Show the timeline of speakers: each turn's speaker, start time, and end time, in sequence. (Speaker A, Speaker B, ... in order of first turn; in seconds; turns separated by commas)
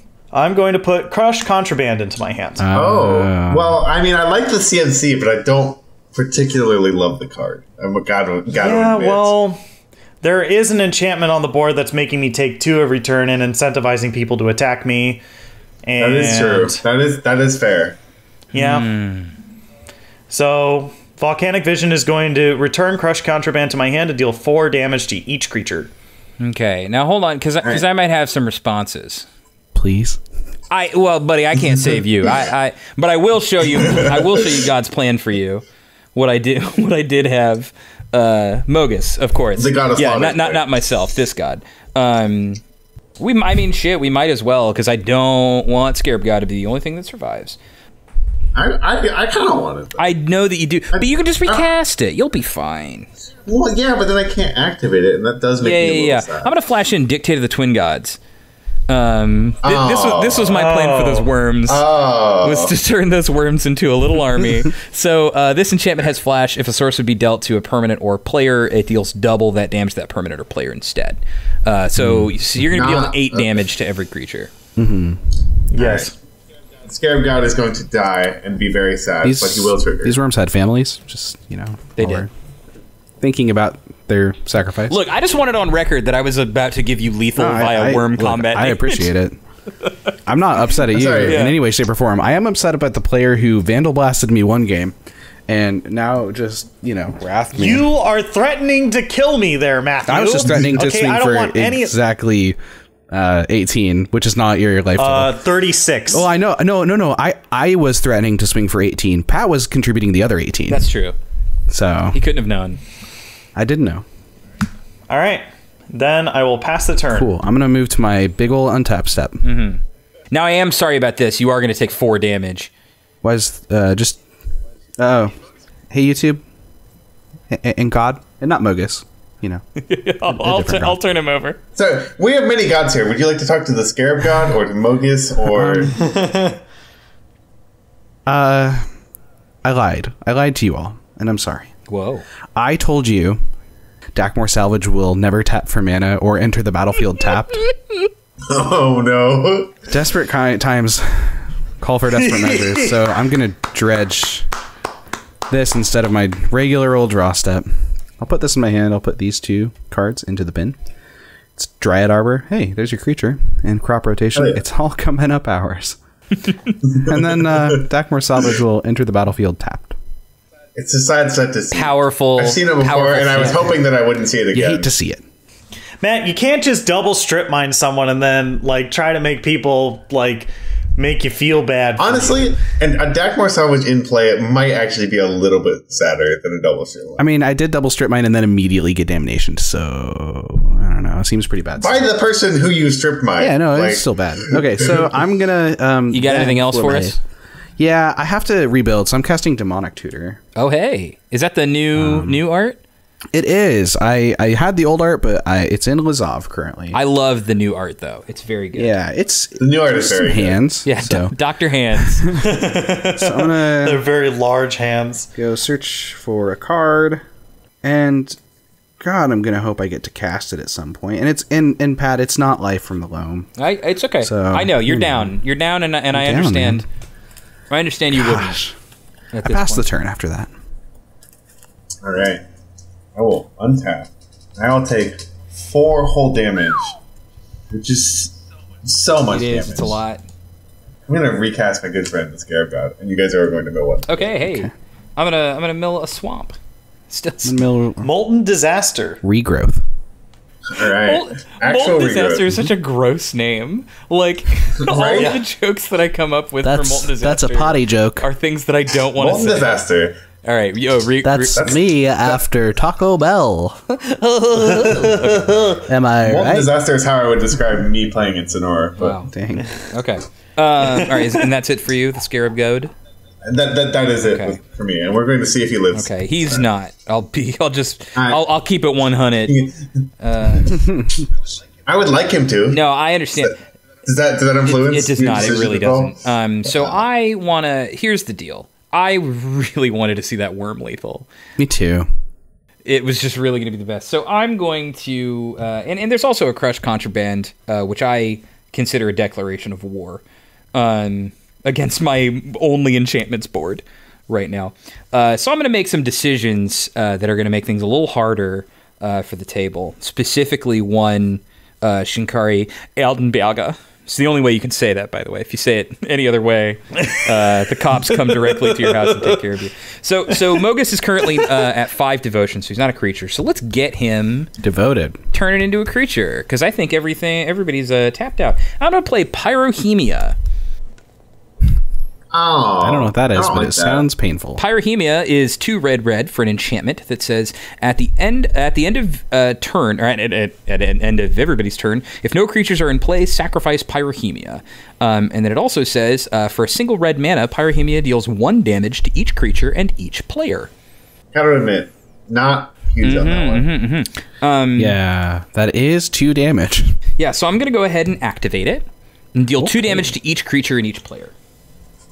Speaker A: 0.3-2.7, Speaker B: 2.6-3.8, Speaker C: 2.7-9.3, Speaker A: 8.5-9.6, Speaker A: 10.2-15.2, Speaker A: 15.8-16.8, Speaker C: 16.0-18.0, Speaker A: 18.5-18.9, Speaker D: 18.6-19.3, Speaker A: 20.3-25.9, Speaker D: 26.4-29.3, Speaker B: 29.8-30.2, Speaker D: 30.7-35.6, Speaker C: 33.8-34.3, Speaker D: 36.1-42.6, Speaker C: 39.6-40.8, Speaker D: 43.2-47.6, Speaker C: 48.5-50.1, Speaker D: 50.0-53.1, Speaker C: 50.9-51.7, Speaker C: 53.5-56.6, Speaker D: 55.6-58.2, Speaker D: 58.9-61.9, Speaker C: 59.6-60.5, Speaker A: 60.5-61.3, Speaker C: 61.7-62.7, Speaker D: 62.4-74.5, Speaker B: 72.0-72.3, Speaker C: 72.7-73.6, Speaker B: 74.8-75.2, Speaker A: 75.7-76.1, Speaker C: 75.8-76.1, Speaker C: 76.9-80.2, Speaker B: 79.2-82.3, Speaker D: 82.0-82.3, Speaker B: 83.2-85.0, Speaker D: 84.9-89.1, Speaker B: 87.4-89.4, Speaker B: 90.3-95.0, Speaker C: 90.8-91.5, Speaker D: 91.2-91.6, Speaker B: 95.5-97.9, Speaker A: 97.5-102.0, Speaker B: 100.1-102.6, Speaker B: 103.1-105.4, Speaker A: 105.0-106.3, Speaker B: 106.1-110.9, Speaker D: 110.7-111.2, Speaker B: 111.7-112.2, Speaker D: 112.1-112.8, Speaker B: 113.6-114.0, Speaker A: 115.1-117.3, Speaker B: 117.1-119.4, Speaker D: 119.4-119.8, Speaker D: 120.3-122.7, Speaker B: 123.2-124.2, Speaker B: 125.0-125.3, Speaker B: 125.9-126.4, Speaker B: 127.5-129.6, Speaker D: 129.8-131.6, Speaker B: 130.3-131.0, Speaker C: 131.8-135.9, Speaker B: 135.5-135.9, Speaker A: 136.0-136.6, Speaker B: 138.3-138.9, Speaker B: 139.6-141.7, Speaker D: 141.9-142.2, Speaker B: 142.6-143.4, Speaker B: 144.2-147.6, Speaker C: 148.5-149.8, Speaker B: 149.9-154.5, Speaker A: 152.3-152.9, Speaker B: 155.5-157.7, Speaker B: 158.2-160.8, Speaker B: 161.6-166.0, Speaker C: 164.4-164.6, Speaker C: 166.9-167.8, Speaker B: 166.9-170.0, Speaker C: 170.8-174.9, Speaker D: 171.7-173.8, Speaker B: 174.5-175.2, Speaker A: 176.0-182.6, Speaker C: 182.0-187.2, Speaker B: 187.2-192.1, Speaker C: 191.8-195.1, Speaker B: 193.4-197.2, Speaker D: 196.1-197.2, Speaker B: 197.8-200.4, Speaker D: 200.6-202.8, Speaker B: 201.9-202.4, Speaker B: 203.3-207.0, Speaker D: 206.9-209.0, Speaker B: 208.7-211.3, Speaker C: 209.6-210.6, Speaker D: 210.8-212.3, Speaker B: 212.0-212.5, Speaker A: 212.3-215.3, Speaker B: 213.2-214.0, Speaker B: 215.4-217.2, Speaker B: 217.8-218.4, Speaker B: 219.0-223.6, Speaker D: 223.6-226.8, Speaker B: 224.2-225.4, Speaker B: 226.1-226.9, Speaker D: 227.7-228.6, Speaker B: 228.1-228.8, Speaker D: 229.3-229.9, Speaker B: 229.4-230.5, Speaker C: 232.0-232.4, Speaker C: 233.2-236.9, Speaker C: 237.7-240.0, Speaker D: 239.3-240.2, Speaker C: 241.1-244.3, Speaker D: 244.1-246.6, Speaker B: 244.4-244.7, Speaker D: 247.1-247.6, Speaker B: 247.4-248.1, Speaker A: 248.0-249.2, Speaker B: 249.2-249.8, Speaker C: 250.7-252.6, Speaker D: 251.0-259.7, Speaker C: 254.8-255.4, Speaker B: 256.6-258.3, Speaker C: 259.2-260.1, Speaker D: 260.4-261.6, Speaker B: 261.2-263.9, Speaker C: 261.6-262.4, Speaker D: 263.9-265.7, Speaker A: 264.8-265.4, Speaker B: 265.9-266.7, Speaker C: 266.2-269.2, Speaker D: 269.0-272.9, Speaker B: 269.3-269.7, Speaker C: 273.4-276.7, Speaker D: 274.2-274.6, Speaker D: 275.9-279.5, Speaker C: 278.2-278.4, Speaker C: 279.5-279.9, Speaker D: 280.2-280.9, Speaker B: 280.8-281.2, Speaker C: 281.9-282.8, Speaker D: 282.7-283.6, Speaker C: 284.1-287.0, Speaker D: 284.7-291.3, Speaker B: 291.6-292.1, Speaker D: 292.9-300.2, Speaker D: 300.7-324.5, Speaker A: 318.1-319.4, Speaker B: 324.6-325.2, Speaker D: 325.3-330.4, Speaker C: 332.3-334.1, Speaker B: 332.8-334.6, Speaker D: 334.6-350.7, Speaker C: 351.3-353.7, Speaker D: 353.0-355.0, Speaker B: 354.8-357.0, Speaker D: 357.2-361.3, Speaker B: 359.6-360.1